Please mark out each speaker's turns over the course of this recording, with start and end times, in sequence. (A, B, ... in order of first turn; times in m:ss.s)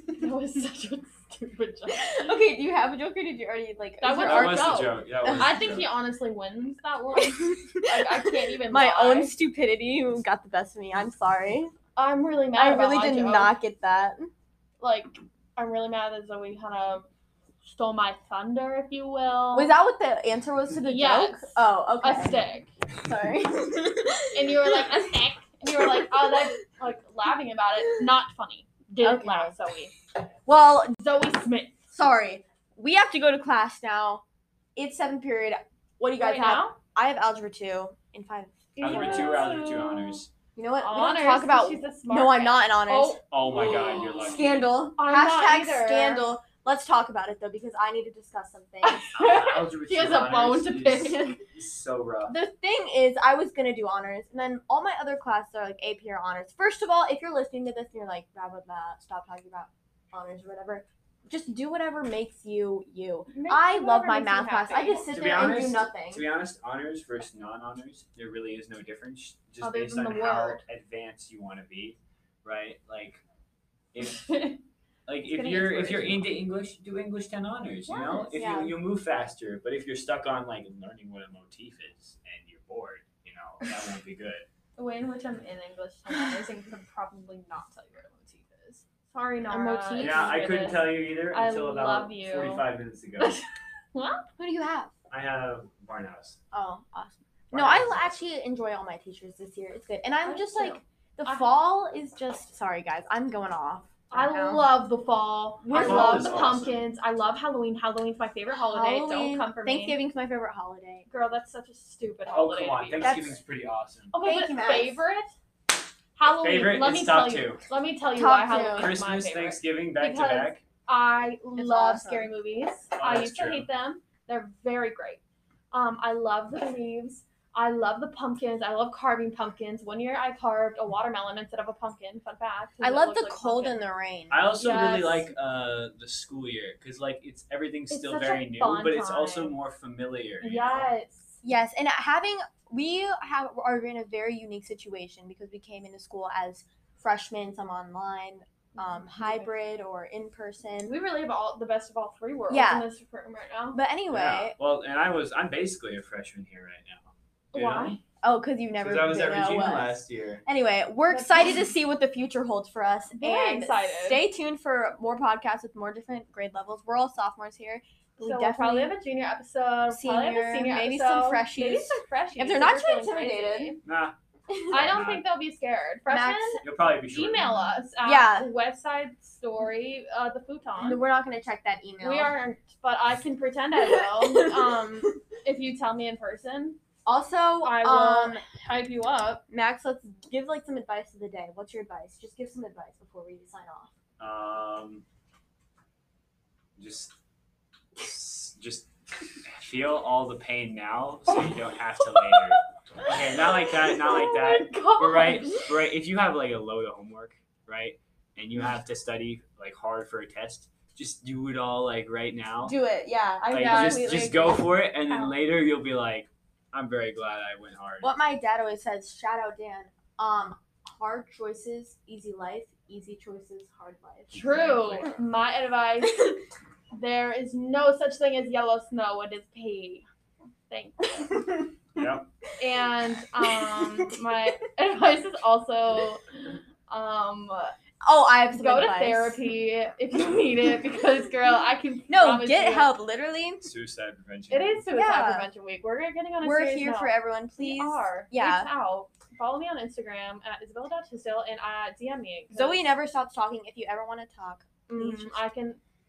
0:00.1-0:02.3 A
0:01.9-0:05.7 B
0:04.0-0:09.3 A
0:04.1-0:06.0 C
0:07.1-0:11.7 B
0:12.0-0:13.5 A
0:12.5-0:14.3 B
0:14.8-0:17.1 A
0:17.6-0:19.7 A
0:19.5-0:22.4 B
0:20.8-0:22.7 A
0:23.0-0:24.9 B
0:24.3-0:29.9 A
0:25.7-0:26.4 B
0:29.0-0:29.5 B
0:30.4-0:31.0 B
0:30.9-0:31.7 A
0:31.9-0:34.2 B
0:34.8-0:39.5 B
0:36.2-0:36.8 A
0:38.8-0:40.2 A
0:38.8-0:40.3 C
0:40.5-0:49.1 B
0:40.8-0:44.4 A
0:43.3-0:44.8 C
0:44.9-0:46.3 A
0:48.8-0:51.4 A
0:49.1-0:52.4 C
0:52.2-1:06.3 B
1:03.3-1:05.5 A
1:05.0-1:13.2 C
1:09.6-1:10.6 A
1:13.9-1:14.5 C
1:14.0-1:14.6 A
1:15.1-1:24.4 C
1:15.3-1:16.3 A
1:17.9-1:18.4 A
1:18.4-1:18.8 B
1:24.8-1:34.2 A
1:29.5-1:30.5 B
1:30.0-1:33.4 C
1:34.4-1:34.9 B
1:35.1-1:36.4 C
1:36.5-1:44.8 B
1:37.5-1:38.2 C
1:40.2-1:41.6 A
1:44.1-1:50.0 A
1:45.6-1:46.4 B
1:45.7-1:46.9 C
1:48.6-1:51.1 B
1:51.1-1:53.4 A
1:52.3-1:54.1 C
1:53.0-1:53.4 B
1:54.1-1:55.3 A
1:54.2-1:55.0 B
1:56.2-2:13.8 A
1:56.2-1:57.6 C
1:58.1-1:58.9 B
1:58.6-2:00.6 C
2:01.5-2:02.3 B
2:03.0-2:03.7 C
2:12.8-2:14.5 B
2:14.3-2:20.9 C
2:14.6-2:15.3 A
2:17.9-2:19.6 A
2:20.4-2:21.3 A
2:21.4-2:31.0 B
2:28.7-2:29.5 A
2:30.9-2:33.8 A
2:32.5-2:32.9 B
2:33.7-2:34.6 B
2:34.1-2:38.0 C
2:37.5-2:38.0 A
2:38.2-2:48.9 B
2:38.7-2:40.4 C
2:41.1-2:41.6 A
2:43.2-2:44.2 A
2:48.2-2:53.8 A
2:49.9-2:53.8 B
2:53.8-2:54.1 C
2:54.7-3:01.0 A
2:54.7-2:55.3 C
2:56.1-2:56.6 B
2:56.6-2:57.8 C
2:58.0-2:58.5 B
3:00.8-3:02.4 B
3:02.0-3:06.8 A
3:03.8-3:04.8 B
3:07.0-3:08.5 B
3:07.6-3:09.4 A
3:09.5-3:13.9 B
3:14.2-3:15.0 C
3:16.8-3:17.1 C
3:18.0-3:18.9 C
3:19.4-3:32.8 C
3:24.0-3:25.8 A
3:32.6-3:34.1 B
3:33.4-3:35.4 A
3:33.5-3:38.1 C
3:38.0-3:44.3 B
3:44.3-3:45.2 C
3:44.3-3:46.4 A
3:46.9-3:50.1 A
3:50.7-3:51.4 A
3:52.0-3:52.3 C
3:52.6-3:56.3 A
3:53.4-3:54.1 B
3:56.8-3:57.7 A
3:58.0-3:59.4 B
3:58.5-4:02.9 A
4:02.1-4:03.7 B
4:03.6-4:04.9 C
4:04.5-4:12.9 A
4:04.9-4:05.5 B
4:06.4-4:08.7 B
4:12.5-4:15.4 B
4:14.9-4:15.8 A